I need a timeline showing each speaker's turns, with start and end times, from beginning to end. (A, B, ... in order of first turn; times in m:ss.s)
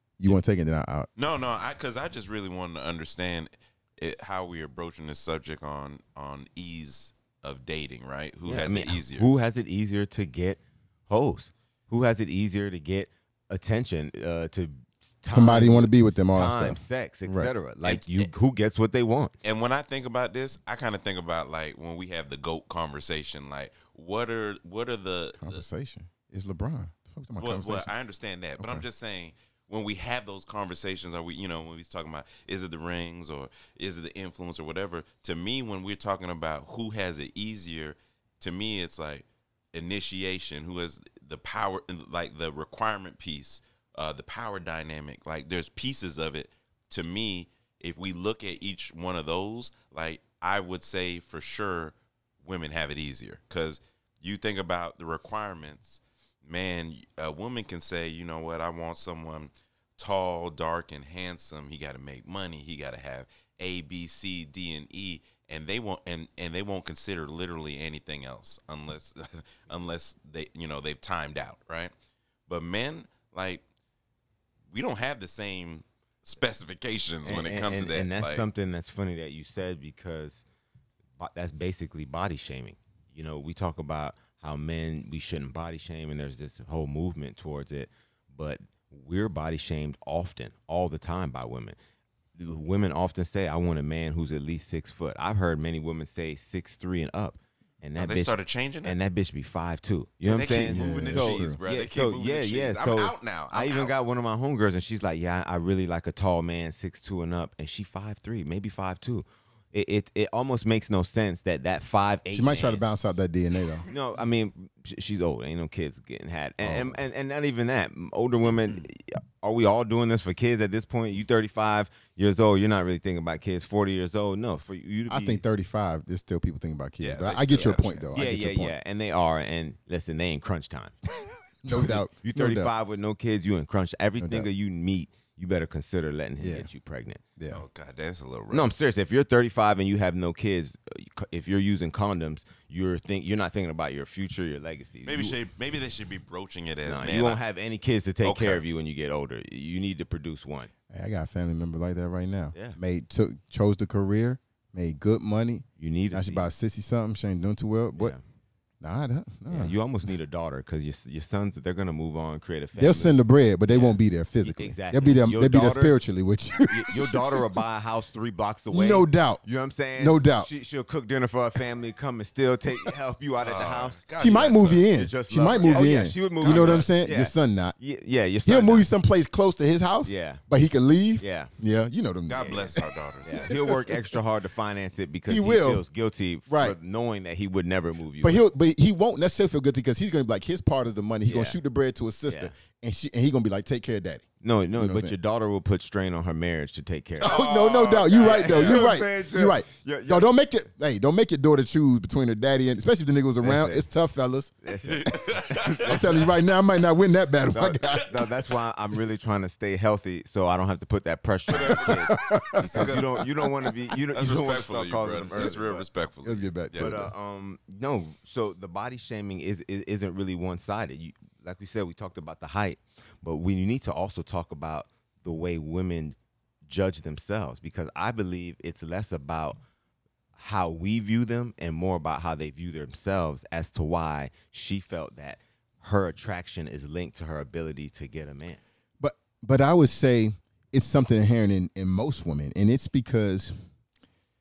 0:00.2-0:01.1 A
0:01.2-0:09.3 B
0:08.5-0:19.3 C
0:15.3-0:17.5 A
0:17.8-0:18.3 B
0:19.4-0:25.6 B
0:25.4-0:27.9 A
0:27.4-1:11.9 B
0:28.6-0:28.8 A
1:12.5-1:13.6 B
1:14.7-1:18.4 B
1:17.2-1:20.4 C
1:21.2-1:31.8 C
1:32.4-1:52.8 C
1:38.0-1:39.0 B
1:40.2-1:43.9 B
1:40.6-1:41.6 A
1:52.3-1:53.9 A
1:53.9-2:05.4 C
1:56.6-1:57.0 A
2:05.1-2:08.7 A
2:07.0-2:08.1 B
2:08.1-2:11.0 C
2:11.6-2:12.7 A
2:11.7-2:17.2 C
2:14.2-2:14.5 A
2:16.4-2:16.7 A
2:17.4-2:17.6 A
2:17.5-2:18.7 B
2:18.5-2:25.4 C
2:25.1-2:27.4 B
2:26.8-2:30.7 C
2:28.2-2:28.6 B
2:30.9-2:38.2 A
2:35.8-2:36.5 C
2:38.8-2:39.8 A
2:39.5-2:43.2 C
2:42.8-2:47.5 A
2:43.7-2:46.0 C
2:46.7-2:54.0 C
2:48.7-2:49.4 A
2:50.0-2:50.5 A
2:53.4-2:54.9 B
2:54.2-2:57.8 A
2:54.9-2:58.9 C
2:55.6-2:57.0 B
2:58.5-3:04.2 A
3:00.0-3:00.4 C
3:01.2-3:01.5 C
3:02.3-3:03.7 B
3:02.4-3:02.6 C
3:03.2-3:08.4 C
3:05.3-3:05.8 A
3:06.5-3:06.8 A
3:08.2-3:15.2 A
3:11.2-3:11.6 C
3:12.3-3:12.5 C
3:14.4-3:17.4 C
3:17.2-3:18.9 B
3:17.2-3:24.5 A
3:18.1-3:20.3 C
3:23.4-3:23.8 C
3:24.6-3:26.3 C
3:24.9-3:26.2 B
3:25.8-3:28.1 A
3:27.5-3:35.9 C
3:31.5-3:33.2 B
3:31.6-3:33.7 A
3:34.1-3:36.9 B
3:36.2-3:37.1 A
3:36.7-3:46.2 C
3:46.7-3:49.6 C
3:50.4-3:58.6 C
3:59.0-4:03.5 A